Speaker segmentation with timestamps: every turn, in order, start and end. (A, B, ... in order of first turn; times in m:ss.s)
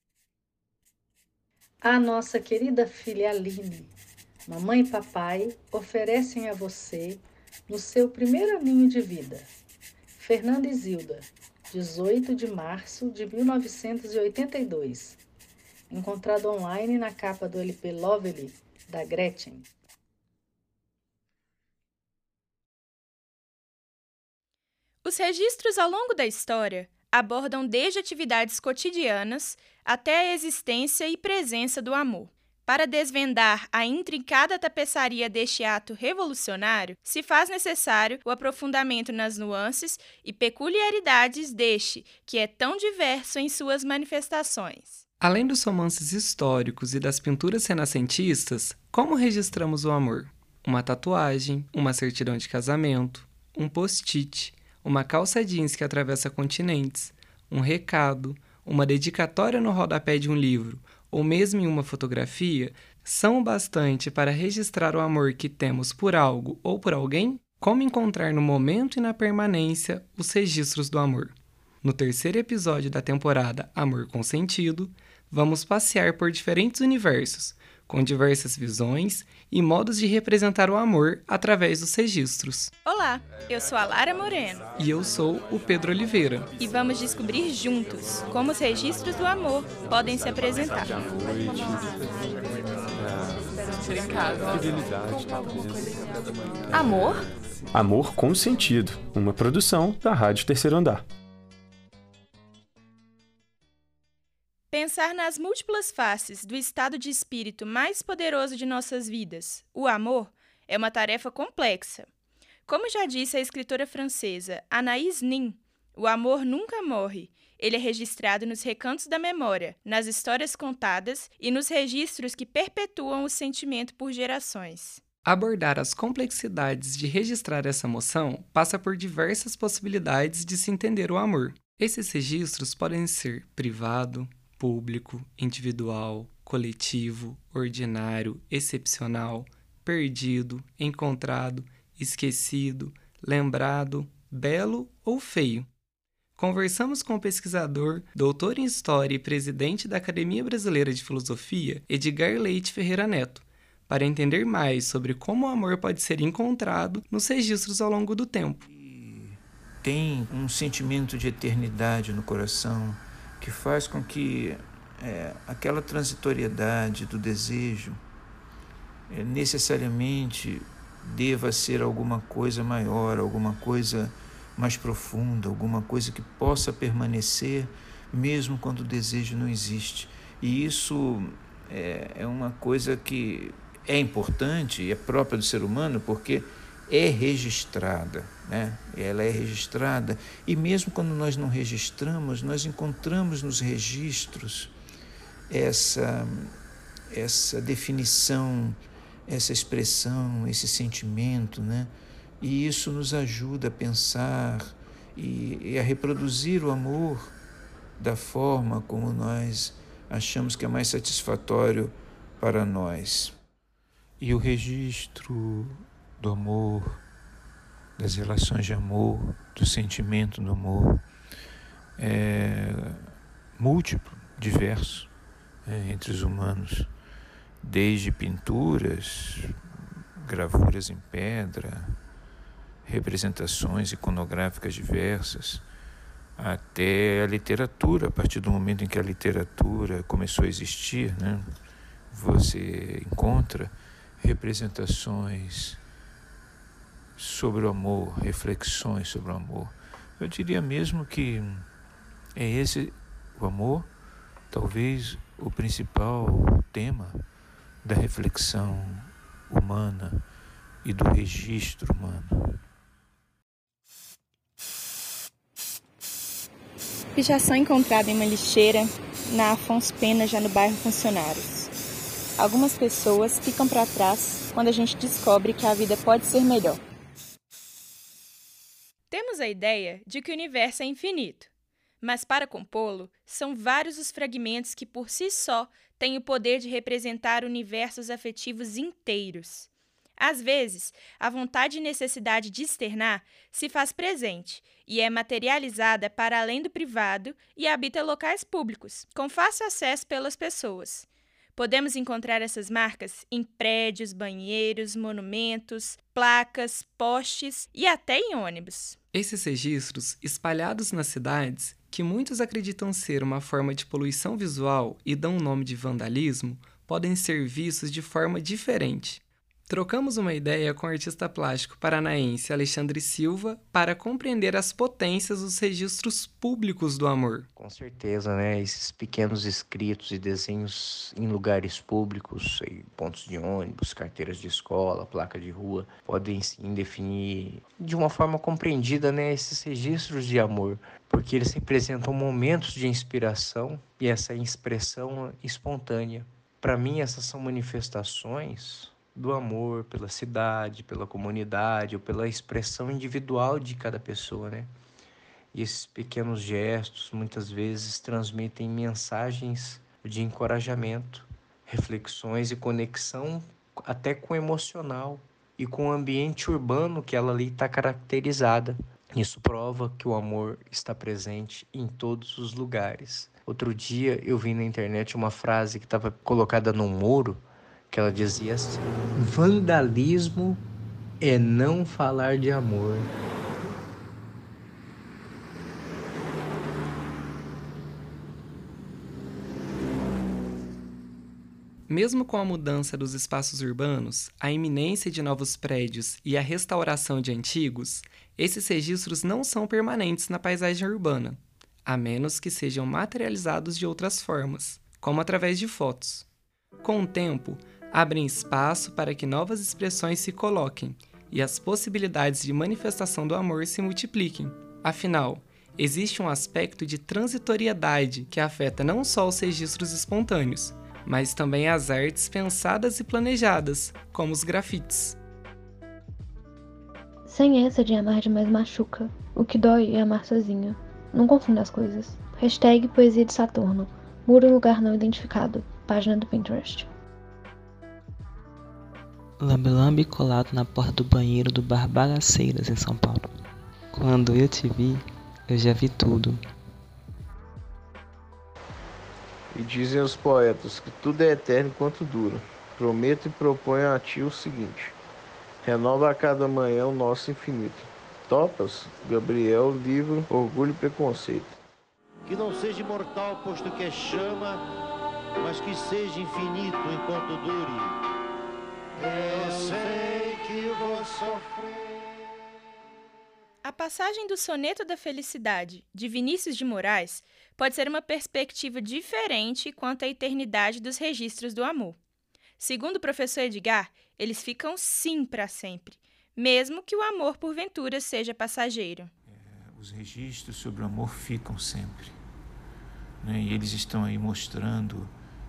0:01.8-0:03.9 A
0:04.5-0:09.5 A
0:10.2-0:15.2 A
0:15.9-0:19.7 A
0:25.0-0:45.0 B
0:45.2-1:22.7 C
1:22.8-1:24.6 B
1:24.8-1:26.5 C
1:26.6-1:31.0 B
1:37.7-1:41.0 D
1:44.7-1:52.1 B
1:52.7-2:05.0 B
2:05.2-2:25.7 C
2:26.4-2:38.6 C
2:38.7-2:48.0 E
2:49.1-3:14.7 E
3:15.5-3:16.6 E
3:17.1-3:27.4 E
3:28.0-3:33.3 E
3:34.2-3:37.0 E
3:38.0-3:41.0 E
3:42.0-3:43.0 E
3:43.6-3:45.1 E
3:45.6-3:46.9 E
3:47.6-3:49.6 E
3:50.2-3:52.0 E
3:52.8-3:55.6 E
3:56.4-4:01.4 E
4:02.1-4:05.8 E
4:07.2-4:11.7 E
4:12.3-4:13.9 E
4:14.5-4:17.2 E
4:17.8-4:20.2 E
4:20.8-4:22.6 E
4:27.1-4:31.7 B
4:32.4-4:36.8 B
4:39.1-4:41.5 B
4:42.0-5:09.0 B
5:09.1-5:27.5 C
5:27.6-5:54.7 F
5:55.5-6:20.6 F
6:21.2-6:23.1 F
6:31.9-6:46.2 C
6:46.8-7:05.2 C
7:07.2-7:16.9 G
7:19.4-7:23.3 H
7:23.9-7:26.4 H
7:29.5-7:35.0 I
7:35.6-7:41.6 I
7:42.2-7:44.6 J
7:45.4-7:47.9 J
7:49.0-7:51.8 J
7:53.6-8:02.0 B
8:02.6-8:09.1 B
8:09.3-8:12.2 E
8:13.2-8:15.1 E